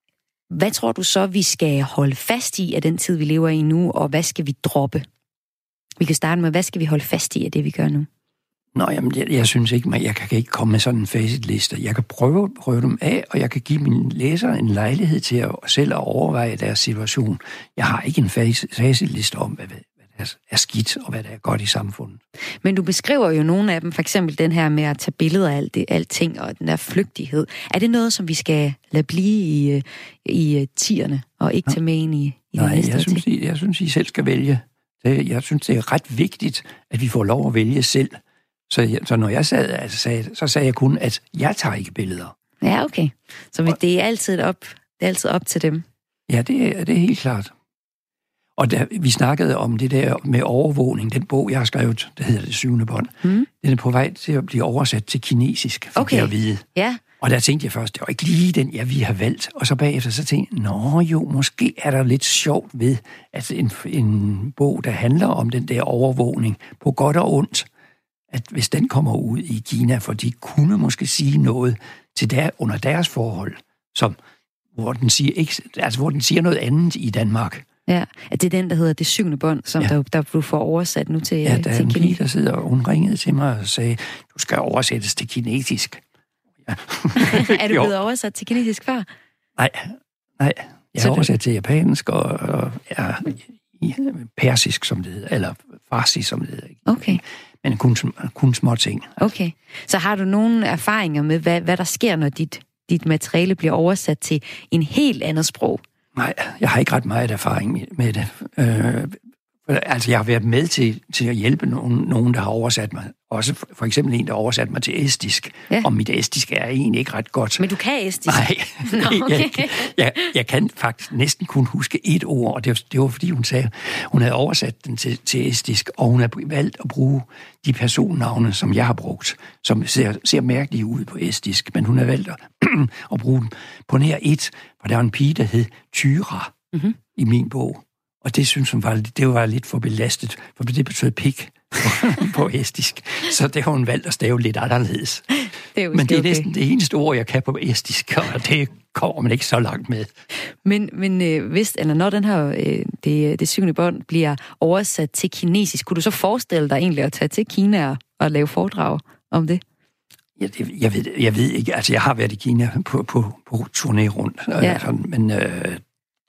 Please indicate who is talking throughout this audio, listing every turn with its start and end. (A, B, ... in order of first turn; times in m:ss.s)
0:00.5-0:05.0 A
0:06.0-0:08.1 A
0:08.7-0:22.2 B
0:22.6-0:33.2 A
0:32.5-0:42.3 B
0:42.6-0:45.8 A
0:46.3-0:47.5 B
0:48.6-0:56.6 B
0:56.0-0:57.0 A
0:57.2-1:07.7 B
1:08.3-1:14.2 B
1:14.7-1:17.6 B
1:17.9-1:22.2 A
1:21.4-1:26.0 B
1:26.6-1:27.9 B
1:27.2-1:29.1 A
1:29.6-1:39.3 B
1:31.0-1:31.3 A
1:36.9-1:37.2 A
1:39.2-1:45.8 A
1:46.1-1:57.6 B
1:57.6-1:59.9 A
1:58.3-2:16.5 B
2:17.1-2:25.3 B
2:25.7-2:26.5 A
2:25.9-2:30.1 B
2:30.6-2:39.6 A
2:40.4-2:45.8 B
2:44.6-2:44.8 A